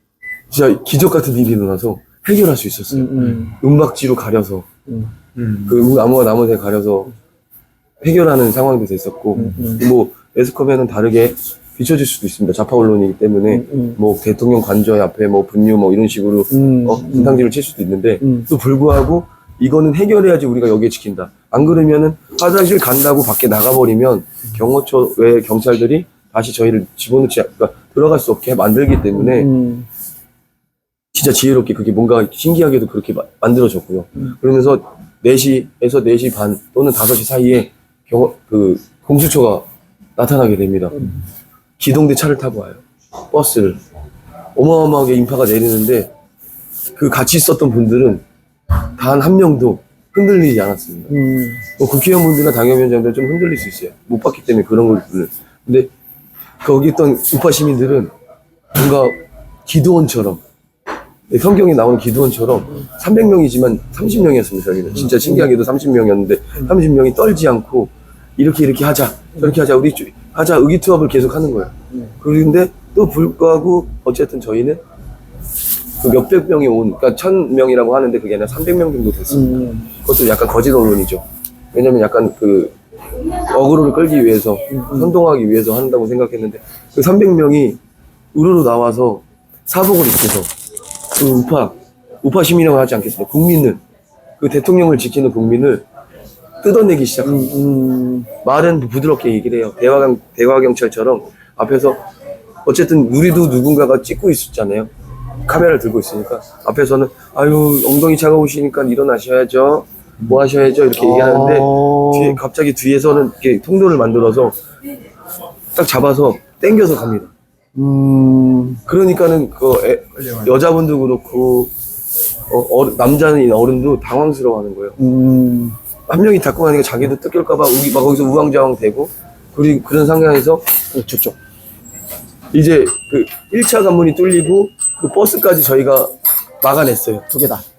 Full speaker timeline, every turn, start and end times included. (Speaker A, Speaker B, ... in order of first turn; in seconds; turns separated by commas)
Speaker A: 0.5-4.7, Speaker B: 2.9-3.5, Speaker A: 5.4-7.1, Speaker A: 8.0-29.5, Speaker B: 9.4-9.8, Speaker B: 13.5-14.0, Speaker B: 16.5-17.4, Speaker B: 18.2-18.5, Speaker B: 29.1-29.9, Speaker A: 31.1-41.0, Speaker B: 40.9-41.2, Speaker A: 41.8-43.8, Speaker A: 44.5-46.1, Speaker A: 46.9-48.2, Speaker A: 49.0-51.1, Speaker B: 51.1-51.6, Speaker A: 51.8-55.9, Speaker A: 56.6-58.1, Speaker A: 58.7-60.4, Speaker A: 61.3-74.8, Speaker B: 65.0-65.5, Speaker A: 76.0-87.8, Speaker B: 79.3-79.9, Speaker B: 84.7-85.1, Speaker A: 88.3-90.5, Speaker A: 91.1-93.8, Speaker A: 94.4-95.8, Speaker A: 96.6-97.5, Speaker B: 97.2-98.3, Speaker A: 98.4-102.0, Speaker A: 102.6-104.9, Speaker A: 105.5-114.5, Speaker B: 111.0-112.4, Speaker A: 115.7-117.3, Speaker B: 117.7-118.8, Speaker A: 118.8-121.7, Speaker A: 122.5-125.0, Speaker B: 125.0-125.8, Speaker A: 126.1-130.6, Speaker B: 130.9-131.4, Speaker A: 132.5-137.2, Speaker B: 137.3-137.6